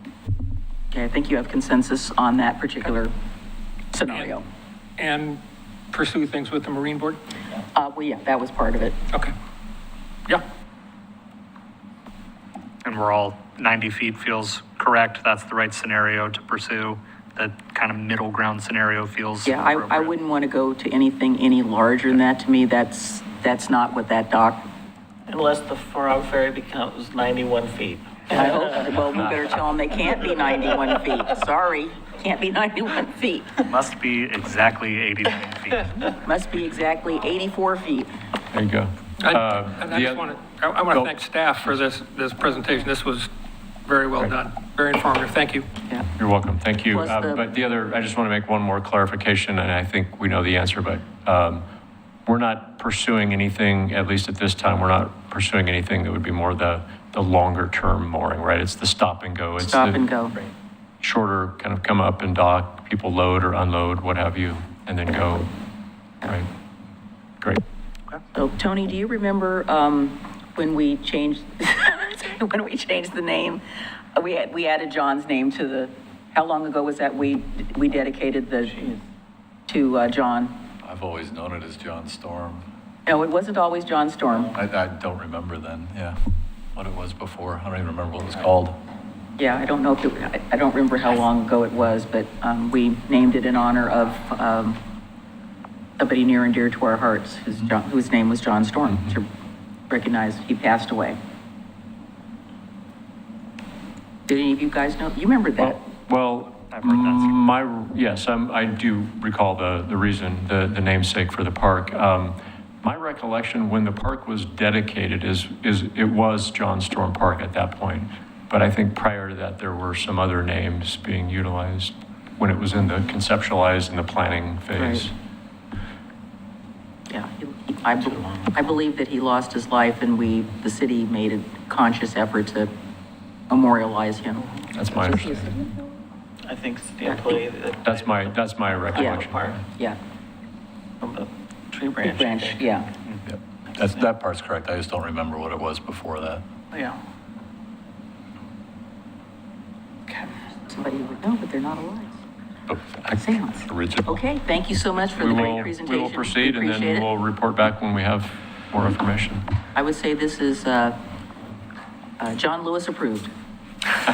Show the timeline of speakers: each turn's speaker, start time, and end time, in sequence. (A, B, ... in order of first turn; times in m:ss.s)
0:00.9-0:03.1 A
0:03.9-0:04.4 A
0:05.0-0:05.4 B
0:05.9-0:07.2 B
0:07.8-0:09.0 A
0:12.8-0:20.1 C
0:19.4-0:24.7 A
0:25.3-0:28.4 D
0:28.3-0:33.6 A
0:33.7-0:36.0 C
0:36.1-0:38.1 A
0:38.5-0:40.3 E
0:39.2-0:43.3 B
0:43.8-0:45.7 B
0:46.2-0:51.6 E
0:46.9-0:47.4 A
0:52.3-1:00.0 E
0:59.6-1:00.4 A
1:01.0-1:05.5 E
1:08.3-1:13.6 A
1:14.2-1:18.9 A
1:19.7-1:20.6 A
1:20.8-1:22.7 F
1:23.1-1:24.6 A
1:24.5-1:26.2 F
1:26.8-1:28.8 F
1:29.4-1:34.8 A
1:36.0-1:39.3 A
1:39.9-1:41.2 A
1:44.3-1:45.8 A
1:45.6-2:05.1 E
1:46.7-1:47.4 C
2:04.8-2:05.0 A
2:07.1-2:12.7 A
2:08.0-2:08.7 D
2:13.5-2:15.7 A
2:14.7-2:15.5 E
2:16.4-2:19.6 D
2:17.0-2:17.4 A
2:17.8-2:19.6 E
2:19.0-2:19.2 A
2:21.0-2:22.6 D
2:22.0-2:22.9 A
2:23.3-2:26.5 F
2:26.7-2:27.0 D
2:30.7-2:32.2 A
2:32.7-2:34.2 F
2:33.1-2:37.1 A
2:35.1-2:39.4 E
2:39.8-2:41.0 A
2:42.2-2:43.3 A